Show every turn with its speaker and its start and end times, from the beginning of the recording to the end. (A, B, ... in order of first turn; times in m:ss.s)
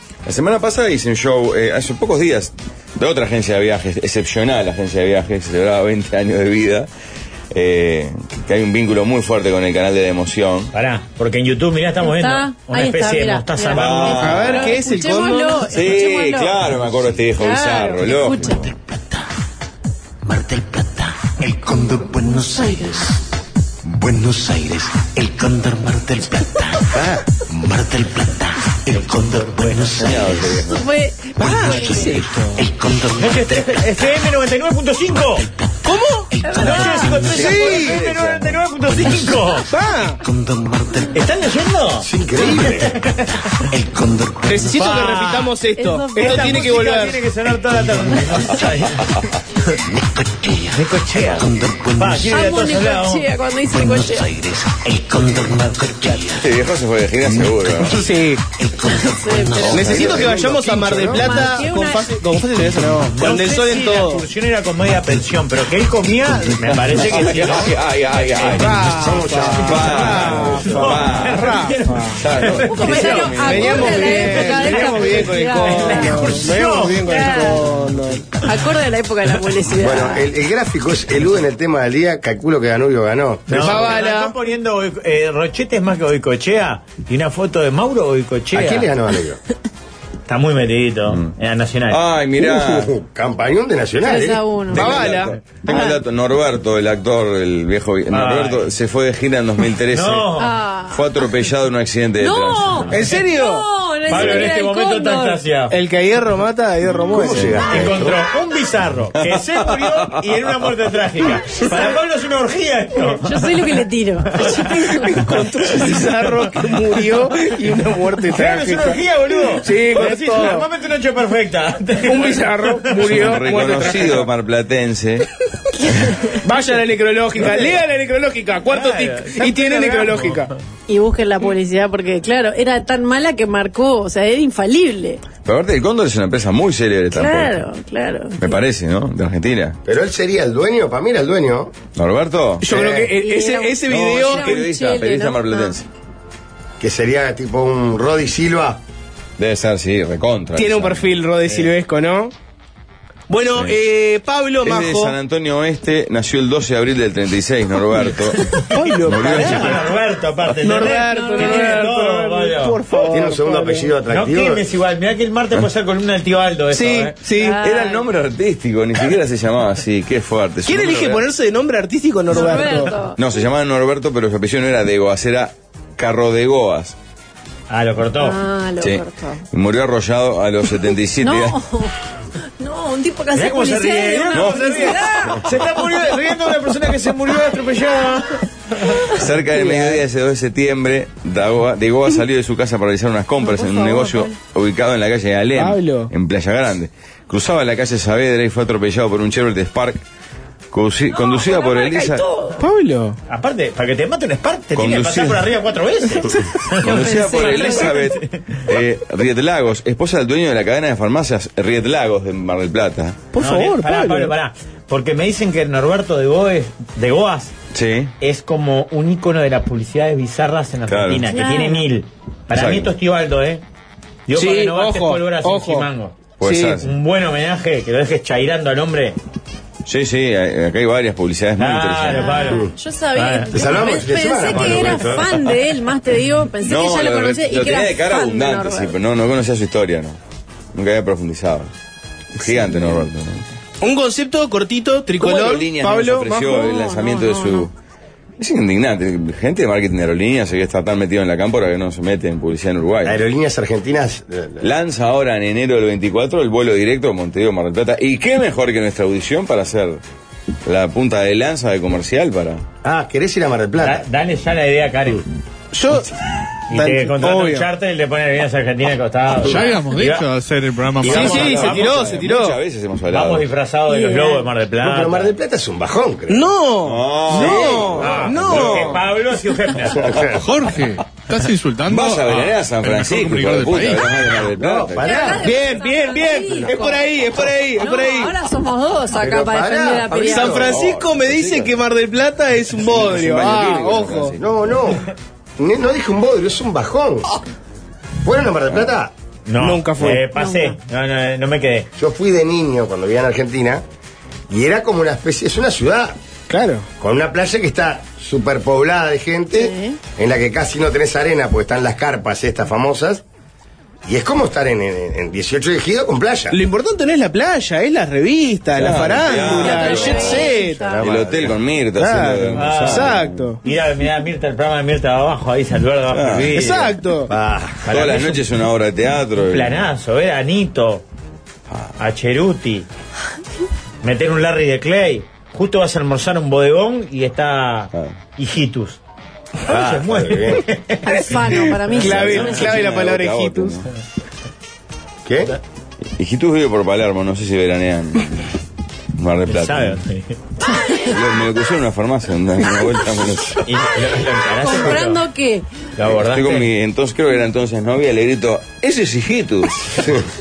0:00.2-0:06.9 A
0:07.5-0:10.7 A
0:10.7-0:14.4 B
0:12.0-0:16.6 C
0:13.7-0:14.8 A
0:14.2-0:15.7 D
0:15.6-0:18.6 A
0:17.4-0:18.7 C
0:18.5-0:19.2 E
0:20.2-0:23.2 E
0:22.5-0:22.9 C
0:23.8-0:30.7 E
0:30.0-0:30.9 A
0:30.7-0:32.0 C
0:31.4-0:32.6 D
0:31.4-0:34.0 E
0:33.2-0:35.4 B
0:35.3-0:37.9 E
0:35.8-0:36.3 D
0:36.4-0:37.2 C
0:36.6-0:39.7 B
0:37.3-0:38.0 F
0:37.4-0:38.5 A
0:38.8-0:41.2 E
0:39.7-0:40.2 D
0:41.1-0:43.3 B
0:42.0-0:42.9 F
0:43.6-0:45.1 E
0:44.4-0:47.2 D
0:44.8-0:45.5 B
0:45.8-0:46.7 C
0:46.2-0:49.1 B
0:48.4-0:48.8 E
0:49.9-0:52.5 E
0:50.7-0:53.3 B
0:52.3-0:54.3 C
0:53.7-0:56.5 E
0:56.4-0:58.0 A
0:57.2-1:00.3 E
0:57.9-0:58.4 D
0:59.0-0:59.7 C
0:59.7-1:04.3 D
0:59.7-1:01.4 F
1:01.1-1:02.2 C
1:03.0-1:08.8 B
1:06.7-1:11.6 A
1:08.6-1:12.2 D
1:09.0-1:10.8 F
1:10.6-1:17.5 B
1:12.1-1:14.5 A
1:12.6-1:16.2 C
1:13.4-1:18.2 D
1:17.0-1:17.7 C
1:18.4-1:20.2 C
1:19.8-1:24.0 F
1:23.5-1:28.9 B
1:23.5-1:24.3 D
1:28.5-1:29.4 F
1:30.3-1:32.0 B
1:31.9-1:32.9 A
1:32.4-1:35.1 F
1:34.0-1:35.0 C
1:34.7-1:40.3 A
1:34.7-1:35.3 D
1:35.6-1:36.0 C
1:38.1-1:38.7 B
1:39.9-1:40.5 B
1:40.4-1:41.2 C
1:40.9-1:42.9 A
1:42.2-1:45.4 C
1:42.9-1:43.7 D
1:44.1-1:45.7 B
1:45.7-1:47.6 D
1:47.1-1:48.2 F
1:47.6-1:53.4 B
1:49.2-1:50.0 A
1:53.2-1:55.1 C
1:54.4-1:56.9 B
1:54.6-2:00.6 D
1:58.3-2:02.9 B
2:02.0-2:04.3 D
2:03.0-2:05.3 A
2:05.8-2:06.1 C
2:06.4-2:10.5 D
2:08.7-2:10.5 B
2:10.9-2:15.2 C
2:15.4-2:17.6 A
2:17.1-2:18.6 C
2:18.4-2:19.8 A
2:19.8-2:21.7 F
2:22.0-2:22.7 A
2:22.6-2:24.6 D
2:22.6-2:23.1 F
2:23.1-2:25.7 C
2:23.9-2:25.9 A
2:26.8-2:28.8 F
2:29.4-2:31.0 A
2:30.6-2:32.3 D
2:33.3-2:35.2 D
2:34.6-2:39.8 A
2:38.4-2:42.8 B
2:38.7-2:39.8 D
2:40.6-2:43.9 D
2:40.9-2:41.8 C
2:43.1-2:44.6 F
2:44.1-2:47.2 B
2:46.7-2:47.6 D
2:47.3-2:48.0 C
2:47.6-2:51.2 A
2:50.6-2:53.0 D
2:52.3-2:53.2 C
2:53.2-2:57.0 A
2:57.7-2:58.4 B
2:58.2-2:59.4 C
2:58.8-3:01.6 A
3:01.2-3:01.9 C
3:02.6-3:05.5 C
3:03.3-3:09.1 B
3:04.3-3:05.1 A
3:09.1-3:20.0 A
3:09.6-3:10.0 D
3:13.4-3:14.3 C
3:15.6-3:16.1 D
3:20.7-3:22.2 A
3:21.1-3:22.6 C
3:22.6-3:23.2 D
3:23.3-3:28.6 B
3:24.7-3:25.5 A
3:26.8-3:33.2 A
3:26.8-3:28.2 C
3:33.3-3:34.3 D
3:33.4-3:37.5 B
3:37.7-3:38.1 A
3:38.2-3:43.6 B
3:40.9-3:41.3 A
3:41.3-3:41.9 C
3:42.5-3:42.9 A
3:44.3-3:46.2 B
3:44.3-3:45.9 D
3:46.4-3:46.9 A
3:46.4-3:46.8 D
3:46.7-3:49.2 B
3:49.8-3:52.4 A
3:51.6-3:52.6 B
3:52.1-3:58.9 C
3:53.1-3:53.9 B
3:53.5-3:55.4 F
3:56.6-4:00.2 A
4:00.7-4:01.7 A
4:02.3-4:03.4 A
4:03.8-4:06.6 D
4:05.2-4:07.7 A
4:06.5-4:07.7 C
4:08.4-4:13.2 A
4:13.0-4:14.7 F
4:14.6-4:20.0 A
4:20.6-4:22.6 A
4:22.8-4:24.0 F
4:23.8-4:25.2 B
4:25.7-4:26.1 D
4:26.7-4:30.2 B
4:26.7-4:27.7 D
4:29.4-4:31.8 G
4:31.0-4:32.2 B
4:31.0-4:32.6 D
4:31.1-4:33.4 A
4:33.1-4:35.3 B
4:33.9-4:34.4 C
4:34.8-4:36.5 F
4:36.3-4:39.0 D
4:36.8-4:39.1 A
4:37.4-4:37.8 F
4:38.0-4:40.0 B
4:39.8-4:40.5 F
4:40.3-4:44.4 G
4:41.9-4:45.3 A
4:44.5-4:45.5 F
4:45.0-4:50.6 C
4:45.4-4:48.3 D
4:49.1-4:50.7 F
4:50.3-4:54.4 D
4:50.5-4:51.8 A
4:52.7-4:54.5 A
4:54.4-4:55.0 F
4:55.6-4:57.3 F
4:58.2-4:59.1 F
4:59.4-5:01.9 B
4:59.6-5:00.3 D
5:00.3-5:00.8 C
5:02.0-5:03.8 F
5:04.5-5:06.2 F
5:06.5-5:06.9 D
5:07.0-5:13.2 F
5:09.5-5:10.0 C
5:14.0-5:16.6 F
5:16.5-5:20.8 D
5:18.7-5:20.4 A
5:19.3-5:21.0 C
5:19.4-5:21.6 F
5:21.0-5:23.5 A
5:22.0-5:23.6 D
5:22.5-5:27.0 B
5:26.1-5:26.6 A
5:26.5-5:27.3 D
5:27.3-5:27.8 F
5:27.8-5:28.4 B
5:27.9-5:29.8 A
5:29.5-5:31.0 B
5:32.0-5:32.9 B
5:34.0-5:39.0 B
5:39.7-5:40.6 F
5:39.7-5:42.6 B
5:41.0-5:42.7 C
5:42.0-5:43.8 D
5:42.0-5:43.9 A
5:45.2-5:45.5 F
5:46.2-5:48.5 A
5:49.2-5:50.0 A
5:49.5-5:50.4 B
5:50.6-5:51.2 C
5:51.0-5:53.6 A
5:53.6-5:55.2 B
5:54.6-5:55.7 C
5:56.0-5:56.7 B
5:56.0-6:00.1 A
6:00.0-6:00.2 F